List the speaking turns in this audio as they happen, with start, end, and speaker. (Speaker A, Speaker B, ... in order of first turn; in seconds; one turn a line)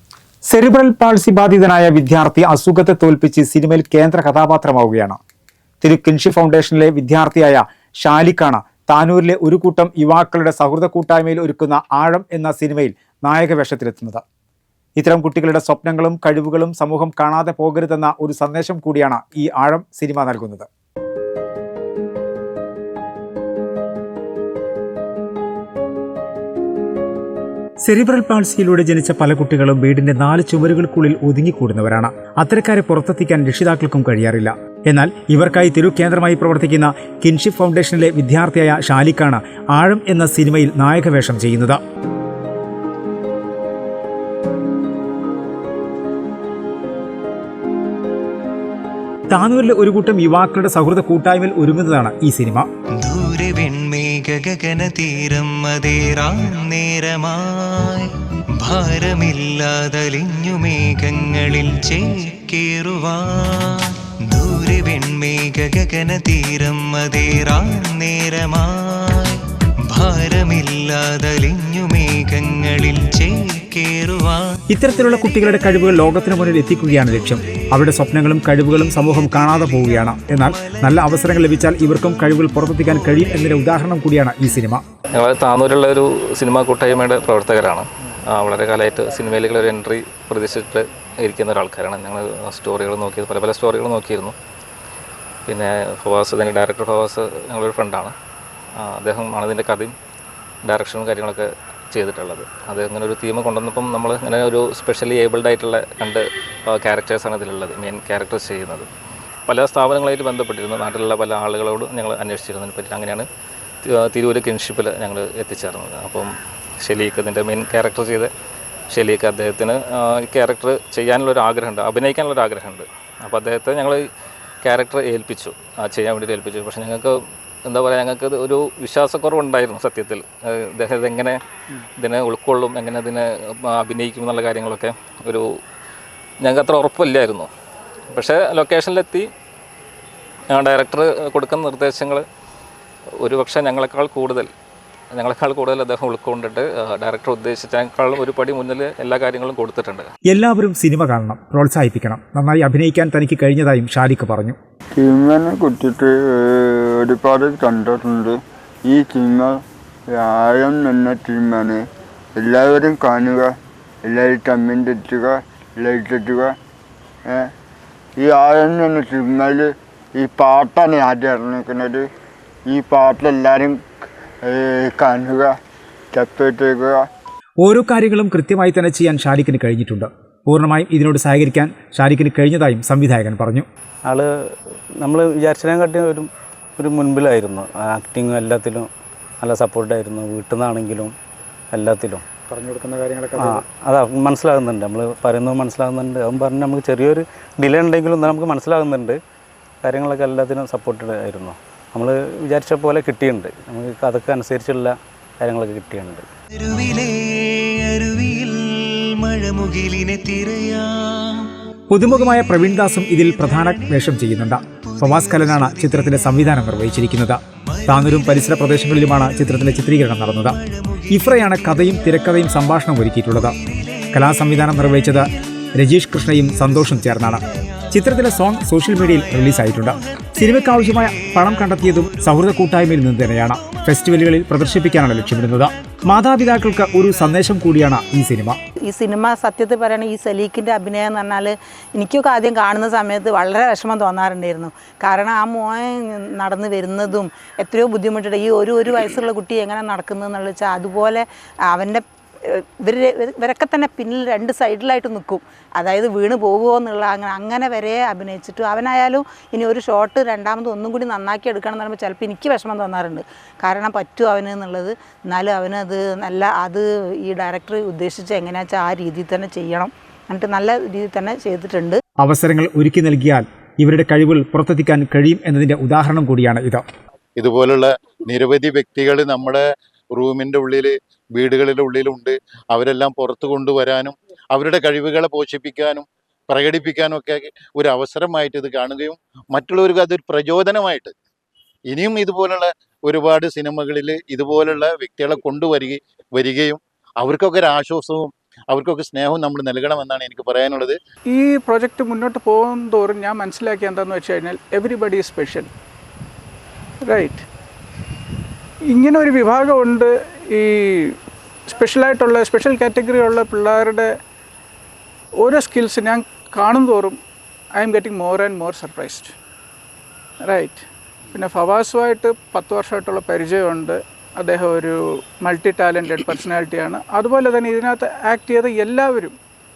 Speaker A: 0.5-5.2
Speaker A: 5.8-14.2
Speaker A: 14.9-20.7
Speaker A: 27.8-41.8
Speaker A: 49.3-52.7
Speaker B: 53.0-74.6
Speaker A: 74.7-84.8
Speaker C: 85.1-94.3
Speaker C: 95.5-98.1
Speaker C: 98.8-99.9
Speaker C: 100.7-108.9
Speaker C: 109.5-113.3
Speaker C: 113.8-118.3
Speaker C: 118.9-124.0
Speaker C: 124.6-131.4
Speaker C: 132.0-135.4
Speaker C: 136.4-137.5
Speaker C: 138.1-139.3
Speaker C: 140.5-142.2
Speaker C: 143.2-144.5
Speaker C: 145.1-150.1
Speaker A: 150.3-154.6
Speaker D: 154.9-161.8
Speaker D: 162.3-166.6
Speaker D: 167.2-167.5
Speaker D: 168.2-172.1
Speaker D: 172.6-173.8
Speaker D: 174.4-175.6
Speaker D: 176.1-177.0
Speaker A: 177.6-183.7
Speaker E: 184.1-188.9
Speaker E: 189.4-191.1
Speaker E: 191.7-192.2
Speaker A: 192.5-193.6
Speaker E: 193.4-199.2
Speaker E: 199.8-206.3
Speaker B: 206.6-211.5
Speaker A: 211.9-220.6
Speaker B: 214.9-215.8
Speaker A: 221.1-223.6
Speaker A: 224.1-238.6
Speaker F: 238.8-272.0
Speaker A: 272.2-276.8
Speaker G: 277.4-291.1
Speaker G: 291.9-301.0
Speaker H: 301.3-305.7
Speaker H: 307.0-307.4
Speaker H: 308.8-311.1
Speaker H: 311.7-314.1
Speaker H: 315.4-317.1
Speaker H: 317.7-319.3
Speaker H: 320.4-329.3